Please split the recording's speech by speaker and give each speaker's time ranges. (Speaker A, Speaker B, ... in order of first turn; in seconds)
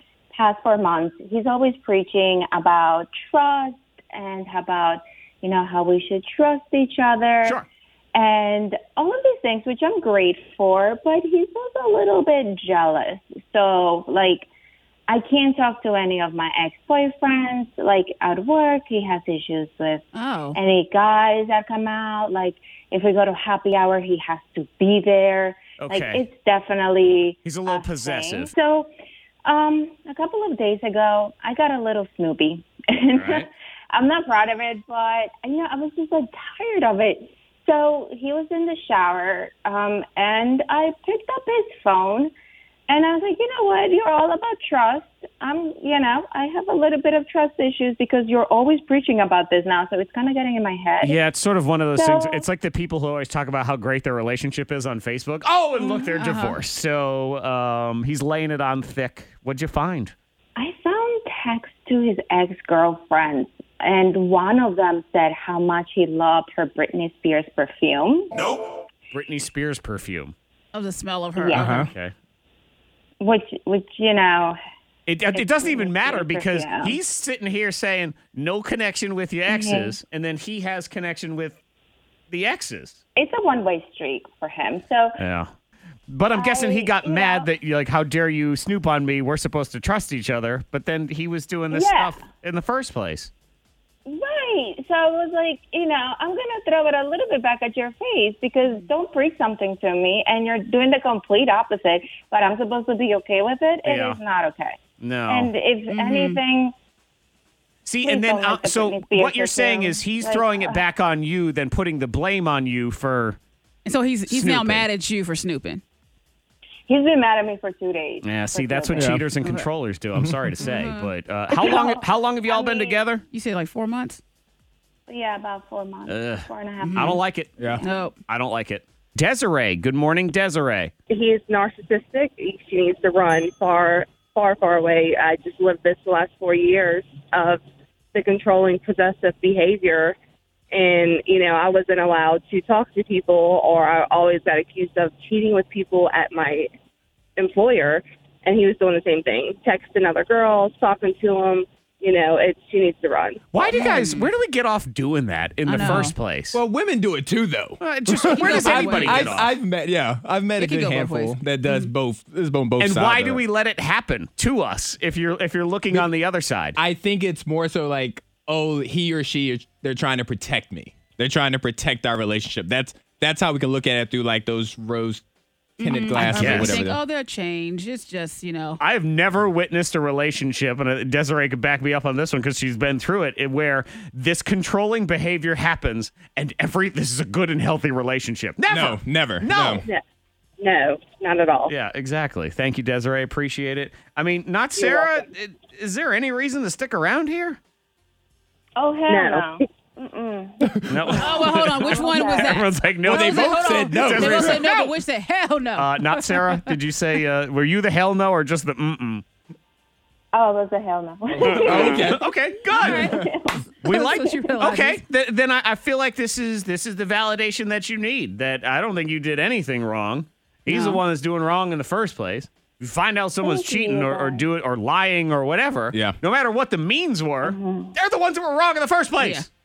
Speaker A: 0.3-7.6, 8.1-14.5, 15.1-28.9, 29.4-42.3, 42.9-51.2, 52.0-52.5, 60.6-68.3, 71.4-71.8, 73.2-74.6, 75.3-77.0, 79.5-80.0, 83.2-85.2, 86.3-87.5, 91.7-92.2, 94.1-106.7, 108.0-110.8, 116.9-119.2, 121.6-123.0, 125.1-127.2, 198.8-202.6, 210.3-212.2, 212.9-214.4, 223.4-224.4, 227.4-227.9
Speaker B: 20.1-20.6, 55.8-56.6, 70.7-71.8, 105.9-106.4, 113.8-115.8, 119.4-119.7, 120.6-121.1, 123.3-124.2, 126.8-127.2, 127.8-128.2, 153.7-154.3, 155.6-156.2, 158.2-159.4, 160.6-161.9, 175.8-178.8, 201.2-206.7, 212.7-213.2, 213.9-215.0, 220.7-221.0, 229.2-229.5
Speaker C: 25.8-26.2, 27.4-28.5, 33.1-33.5, 51.0-60.1, 69.1-70.3, 71.7-72.1, 75.1-81.6, 82.3-83.0, 85.2-85.5, 86.1-93.3, 103.8-104.2, 105.0-105.5, 107.9-113.4, 114.3-114.9, 118.2-123.2, 126.1-130.9, 153.5-156.6, 157.8-159.5, 162.8-166.8, 176.3-176.8, 178.8-189.9, 191.7-197.6, 200.9-205.0, 205.8-209.2, 211.4-213.1, 213.8-229.5
Speaker D: 71.5-71.9, 119.0-119.2, 156.5-163.4, 166.8-175.2, 175.8-177.0, 188.7-189.9, 200.6-201.1, 203.1-204.6, 211.4-212.2, 212.8-213.2
Speaker E: 131.1-137.6, 138.1-140.2, 140.7-146.7, 147.4-153.8, 190.6-191.7, 194.8-195.3, 199.1-199.6